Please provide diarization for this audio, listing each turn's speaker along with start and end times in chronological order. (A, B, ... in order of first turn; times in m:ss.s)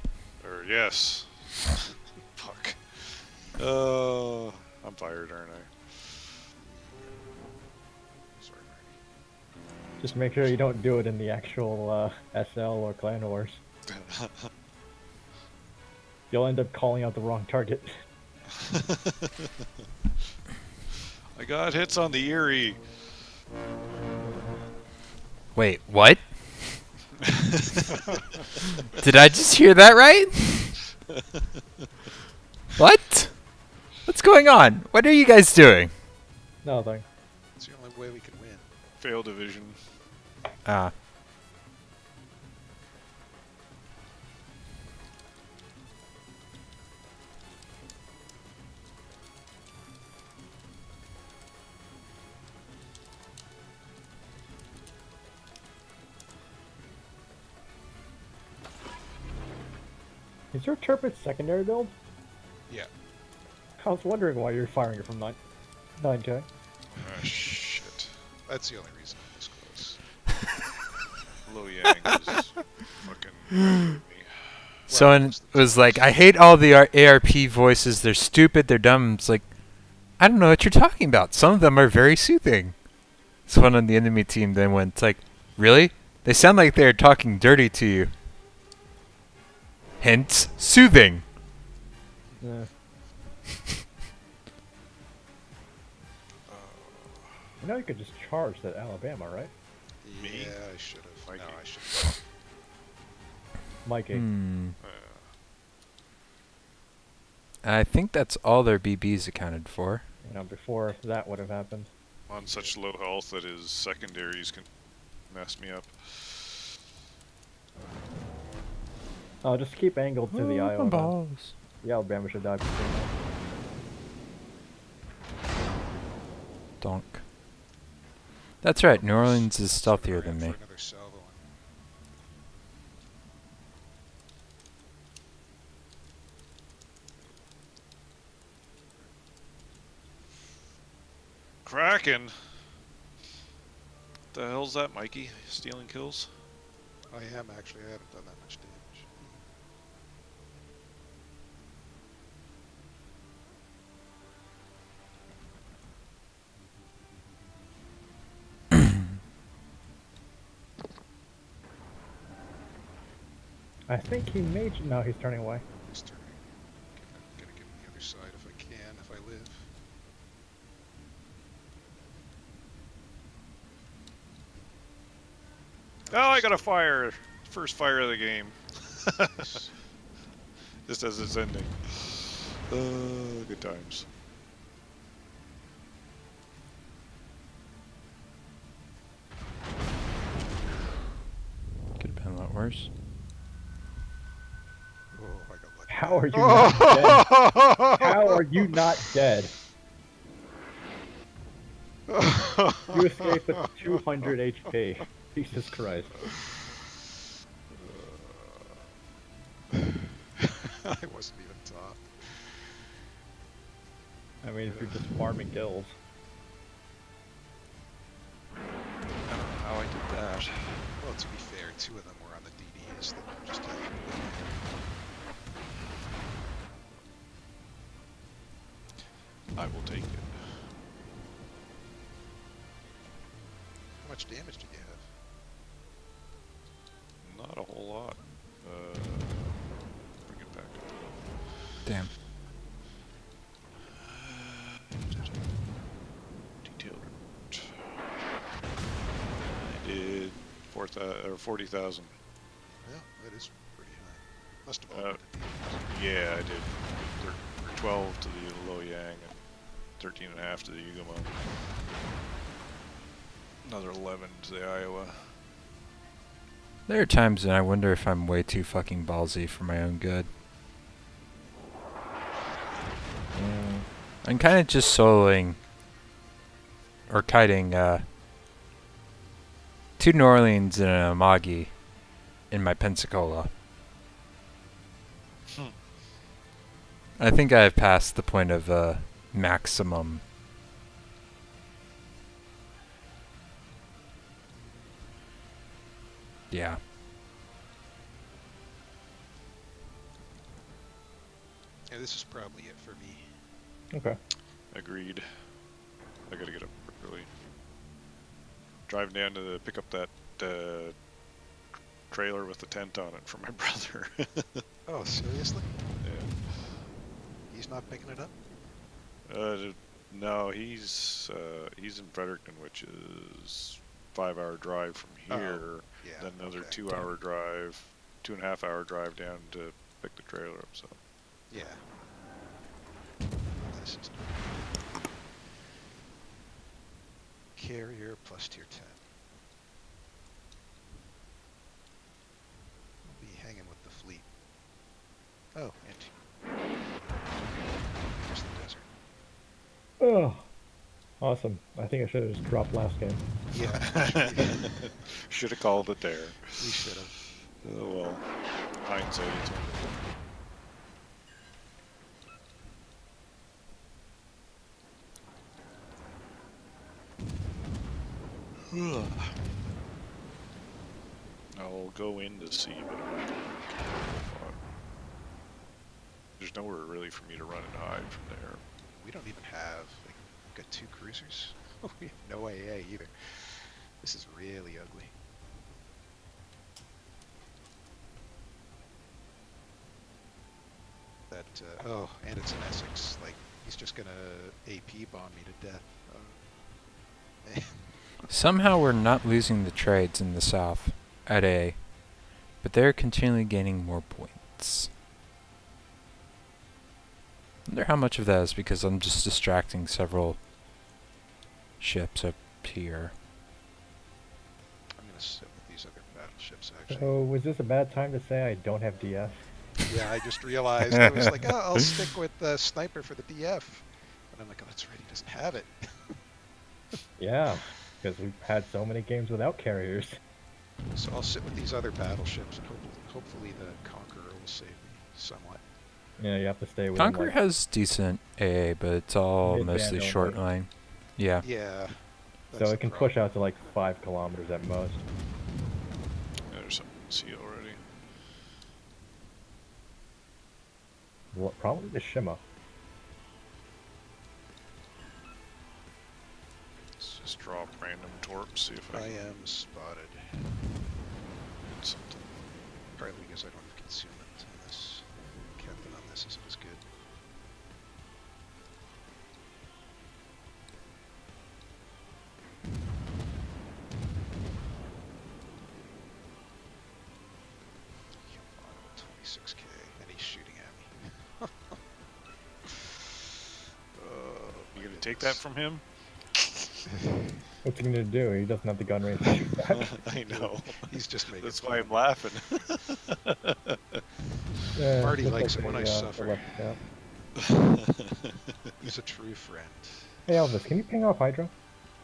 0:00.4-0:06.3 A
0:06.6-0:07.2 B
0:08.4-0:09.0 B
0:10.0-0:13.6 C
0:13.9-0:14.5 A
0:16.3-0:18.0 C
0:18.7-0:19.1 A
0:21.3-0:22.8 A
0:25.6-0:26.8 D
0:29.0-0:30.8 D
0:32.8-0:35.9 D
0:36.6-0:37.0 C
0:37.6-0:38.7 B
0:39.0-0:39.8 A
0:40.6-0:40.9 D
1:00.5-1:01.9 C
1:03.8-1:05.4 C
1:06.0-1:06.5 C
1:06.9-1:08.2 A
1:08.5-1:10.0 B
1:11.4-1:14.7 A
1:14.9-1:16.3 B
1:14.9-1:19.5 D
1:20.2-1:22.8 D
1:23.5-1:28.1 D
1:30.0-1:31.2 D
1:32.4-1:32.7 C
1:36.5-1:37.4 A
1:37.6-1:39.5 C
1:40.0-1:42.1 B
1:40.2-1:40.6 A
1:41.2-1:42.2 A
1:43.8-1:44.3 C
1:44.1-1:44.8 D
1:44.8-1:45.3 A
1:47.6-1:50.1 D
1:50.2-1:51.9 C
1:52.3-1:54.6 A
1:52.4-1:52.8 B
1:55.3-1:56.6 A
1:59.4-2:01.2 C
2:00.3-2:01.6 D
2:01.8-2:03.1 C
2:06.8-2:07.2 D
2:08.6-2:10.6 D
2:08.8-2:11.5 B
2:21.6-2:22.3 A
2:24.3-2:26.3 A
2:27.1-2:29.4 B
2:43.9-2:45.6 C
2:45.8-2:49.7 B
2:56.0-2:56.7 B
2:56.1-2:59.4 A
2:59.3-2:59.7 B
3:00.9-3:04.1 A
3:12.0-3:12.9 D
3:15.1-3:18.8 B
3:15.9-3:19.5 C
3:22.1-3:23.9 B
3:22.9-3:26.2 C
3:27.9-3:28.2 A
3:30.4-3:32.8 B
3:34.4-3:36.0 C
3:34.6-3:35.2 B
3:39.3-3:41.0 A
3:41.0-3:44.6 B
3:49.6-3:50.8 A
3:54.0-3:55.1 B
3:57.2-3:59.7 A
4:00.2-4:01.4 A
4:01.8-4:02.1 D
4:03.9-4:05.4 A
4:06.6-4:07.8 A
4:09.6-4:12.2 A
4:12.7-4:15.9 B
4:14.9-4:15.2 A
4:15.8-4:19.4 A
4:20.0-4:21.4 A
4:23.6-4:25.4 A
4:26.9-4:30.3 D
4:33.4-4:33.9 C
4:34.2-4:35.6 D
4:37.1-4:38.0 D
4:40.0-4:41.8 D
4:42.5-4:43.5 D
4:47.2-4:50.2 D
4:56.5-4:56.8 D
5:01.9-5:03.3 B
5:03.9-5:04.2 C
5:04.7-5:05.3 A
5:06.3-5:07.3 A
5:08.9-5:11.0 A
5:12.1-5:14.6 A
5:14.9-5:15.8 B
5:16.0-5:16.9 A
5:17.5-5:18.4 B
5:19.3-5:31.0 A
5:25.3-5:26.9 B
5:31.5-5:31.8 B
5:33.6-5:34.9 B
5:37.6-5:39.1 B
5:43.1-5:44.3 B
5:45.6-5:48.9 B
5:50.0-5:50.5 C
5:51.2-5:53.2 C
5:53.5-5:54.9 B
5:53.6-5:56.6 A
5:56.5-5:57.2 B
5:57.6-6:00.0 A
6:08.7-6:09.4 A
6:11.5-6:13.3 A
6:14.2-6:14.6 A
6:16.4-6:18.6 A
6:18.9-6:25.1 B
6:31.3-6:36.5 B
6:37.4-6:38.1 B
6:38.3-6:41.9 D
6:42.6-6:44.9 D
6:47.7-6:50.4 D
6:51.8-6:53.1 D
6:55.0-6:57.2 B
6:56.9-6:59.4 C
6:59.8-7:06.2 B
7:07.2-7:10.2 C
7:10.9-7:15.6 B
7:16.2-7:17.4 C
7:17.0-7:21.4 D
7:19.4-7:20.4 C
7:21.4-7:23.2 B
7:22.6-7:25.0 C
7:26.5-7:27.8 A
7:31.3-7:32.4 C
7:37.0-7:39.2 A
7:38.9-7:40.5 B
7:41.7-7:42.2 A
7:43.0-7:46.8 B
7:58.2-8:01.8 B
8:04.0-8:05.4 B
8:04.7-8:06.7 A
8:07.6-8:09.9 C
8:09.6-8:14.0 A
8:10.3-8:12.1 B
8:14.8-8:16.8 C
8:15.0-8:16.5 B
8:17.5-8:17.7 A
8:18.8-8:20.2 B
8:20.3-8:21.5 C